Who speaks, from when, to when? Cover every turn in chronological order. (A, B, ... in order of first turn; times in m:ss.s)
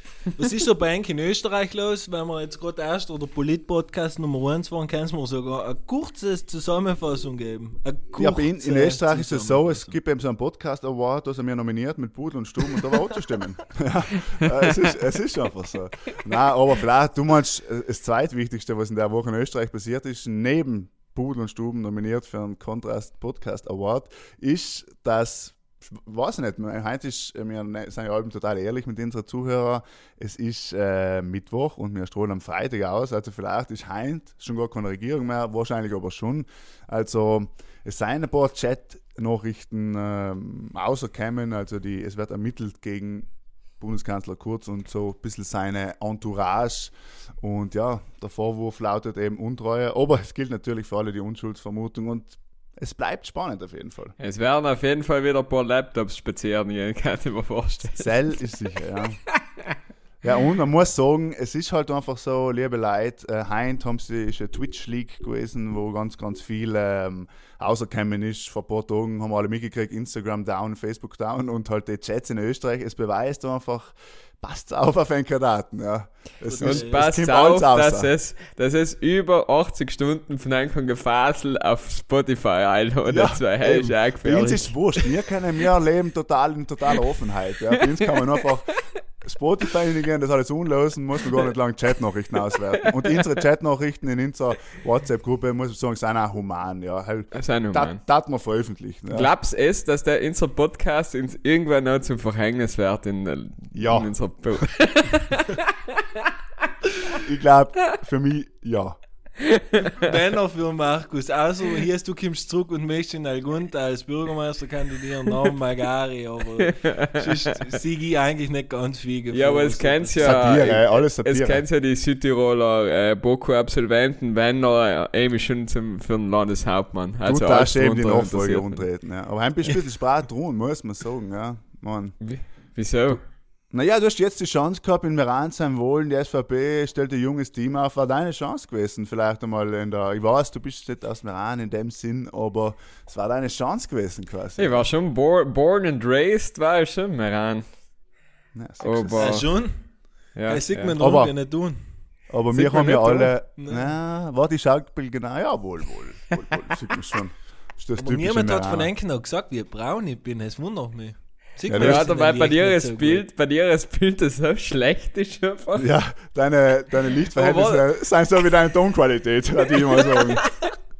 0:00.4-0:10.0 A
0:08.2-0:43.3 B
0:43.8-0:54.1 B
0:54.2-0:58.1 C
0:57.9-0:59.2 B
1:00.2-1:18.1 B
1:16.5-1:17.0 A
1:16.6-1:25.1 C
1:23.1-1:39.3 B
1:32.8-1:33.2 C
1:37.3-1:38.0 C
1:39.1-1:46.2 C
1:43.7-1:44.6 B
1:47.2-1:49.0 B
1:49.4-1:50.0 C
1:49.9-2:00.4 A
1:56.6-1:57.6 C
1:59.3-2:08.8 C
2:00.2-2:01.6 B
2:07.2-2:12.1 B
2:12.2-2:13.2 C
2:13.7-2:24.8 B
2:24.6-2:27.6 C
2:28.5-2:29.4 B
2:28.8-2:29.4 C
2:29.2-2:29.8 A
2:30.4-2:30.9 C
2:30.5-2:31.8 A
2:31.0-2:31.3 B
2:32.3-2:38.9 B
2:32.5-2:33.3 C
2:33.6-2:33.9 A
2:38.0-2:43.2 A
2:41.6-2:42.0 B
2:41.7-2:45.9 C
2:45.8-2:50.4 B
2:47.3-2:47.8 C
2:49.8-2:50.7 C